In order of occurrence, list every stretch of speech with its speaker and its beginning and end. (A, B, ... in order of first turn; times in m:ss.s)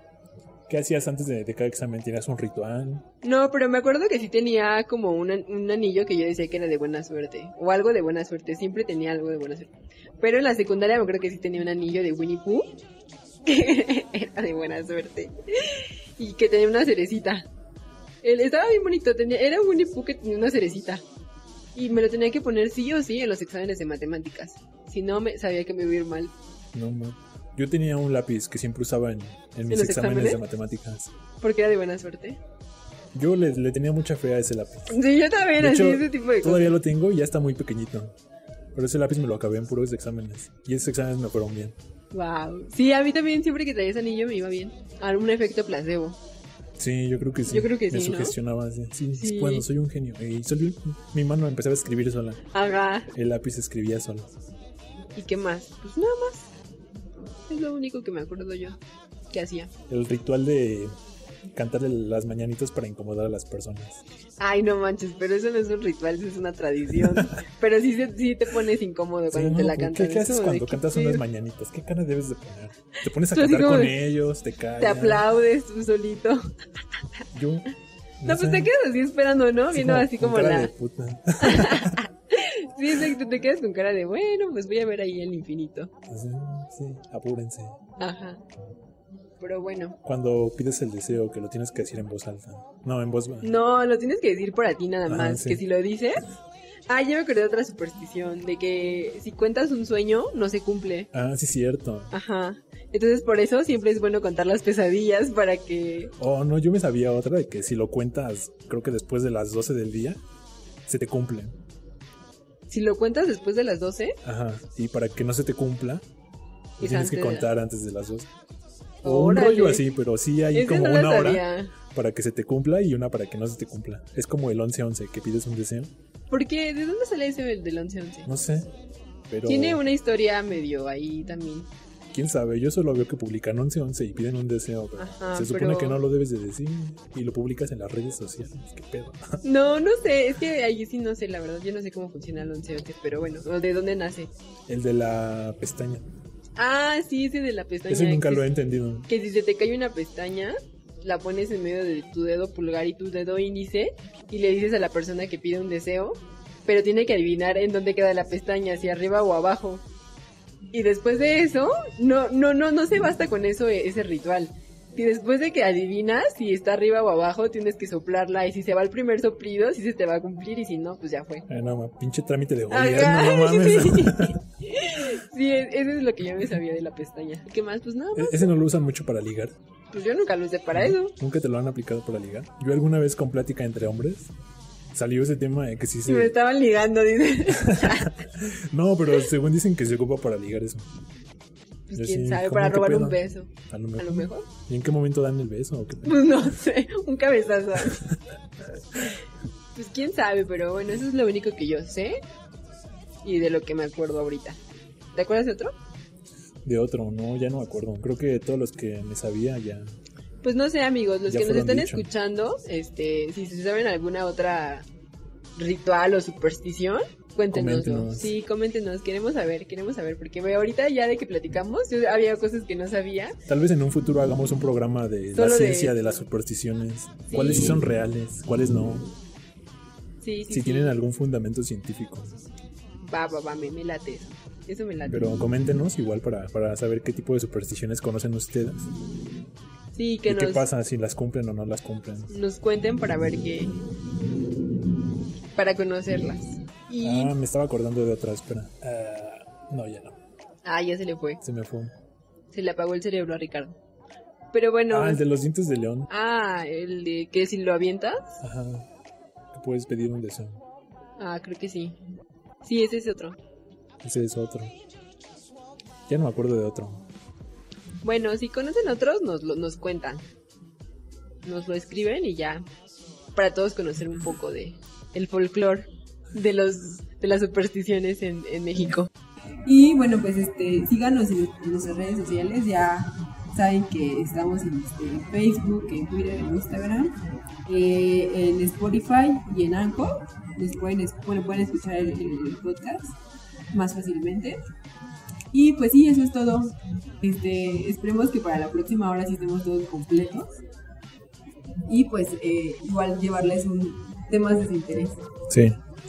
0:00.7-0:03.0 A
0:03.2-0:12.8 B
0:13.4-0:17.5 B
0:18.2-0:21.0 B
0:21.8-0:26.3 B
0:26.7-0:31.1 A
0:29.7-0:30.4 B
0:31.4-0:32.4 B
0:33.1-0:35.0 A
0:34.9-0:36.7 B
0:35.6-0:38.1 A
0:38.8-0:41.8 A
0:42.1-0:46.2 B
0:46.8-0:52.4 A
0:47.5-0:48.4 B
0:49.2-0:49.7 B
0:52.5-0:53.1 B
0:53.1-0:54.3 A
0:55.2-0:56.5 B
0:57.5-0:58.8 B
0:59.3-0:59.7 B
0:59.9-1:00.9 A
1:01.5-1:04.0 A
1:04.4-1:11.2 B
1:07.0-1:07.3 A
1:09.3-1:15.3 A
1:13.2-1:14.0 B
1:14.8-1:16.4 B
1:17.3-1:17.7 A
1:18.2-1:18.7 A
1:18.2-1:20.7 B
1:19.7-1:22.0 A
1:21.4-1:25.9 B
1:26.1-1:27.8 A
1:28.0-1:28.4 B
1:29.4-1:30.0 B
1:30.0-1:33.6 A
1:33.4-1:36.2 B
1:35.1-1:35.6 A
1:36.9-1:41.1 B
1:41.1-1:42.1 A
1:42.1-1:46.1 B
1:46.2-1:50.2 A
1:50.9-1:51.6 A
1:52.7-1:54.2 B
1:54.2-1:56.0 A
1:56.8-1:58.3 A
1:56.8-1:57.5 B
1:59.0-1:59.8 B
1:59.0-2:05.9 A
2:00.5-2:01.7 B
2:06.3-2:08.3 B
2:08.3-2:08.7 A
2:09.3-2:09.8 A
2:09.5-2:11.7 B
2:12.1-2:19.4 A
2:15.0-2:16.0 B
2:19.4-2:24.3 B
2:24.7-2:26.1 A
2:26.6-2:28.5 B
2:27.9-2:29.1 A
2:29.1-2:39.8 B
2:40.7-2:51.5 B
2:51.5-2:54.4 A
2:52.7-2:58.6 B
2:58.2-2:59.5 A
2:59.9-3:01.1 B
3:00.7-3:04.3 A
3:04.9-3:06.4 A
3:06.1-3:08.3 B
3:07.5-3:10.9 A
3:11.9-3:14.5 B
3:12.0-3:16.4 A
3:16.0-3:18.1 B
3:19.8-3:22.2 B
3:23.2-3:24.6 B
3:25.2-3:25.7 B
3:26.6-3:29.9 A
3:30.4-3:34.9 B
3:31.3-3:32.1 A
3:35.6-3:43.4 B
3:37.5-3:38.3 A
3:43.5-3:49.1 A
3:45.4-3:46.0 B
3:47.3-3:47.8 B
3:50.2-3:51.0 B
3:50.5-3:52.4 A
3:53.1-3:55.4 B
3:55.1-3:58.9 A
3:59.9-4:00.6 B
4:00.3-4:02.3 A
4:02.3-4:03.8 B
4:05.6-4:07.4 B
4:07.0-4:10.2 A
4:10.6-4:11.4 B
4:11.4-4:11.9 A
4:12.5-4:13.8 B
4:14.5-4:15.2 B
4:14.9-4:16.1 A
4:16.1-4:18.4 B
4:18.4-4:18.9 A
4:19.5-4:20.6 A
4:21.2-4:22.0 B
4:22.6-4:23.4 B
4:24.0-4:24.7 A
4:26.1-4:27.0 A
4:28.0-4:30.2 B
4:31.5-4:32.6 B
4:33.4-4:39.1 B
4:39.7-4:47.1 B
4:47.7-4:53.2 B
4:53.7-4:54.6 B
4:55.5-5:00.5 B
5:01.9-5:05.2 B
5:05.5-5:05.8 A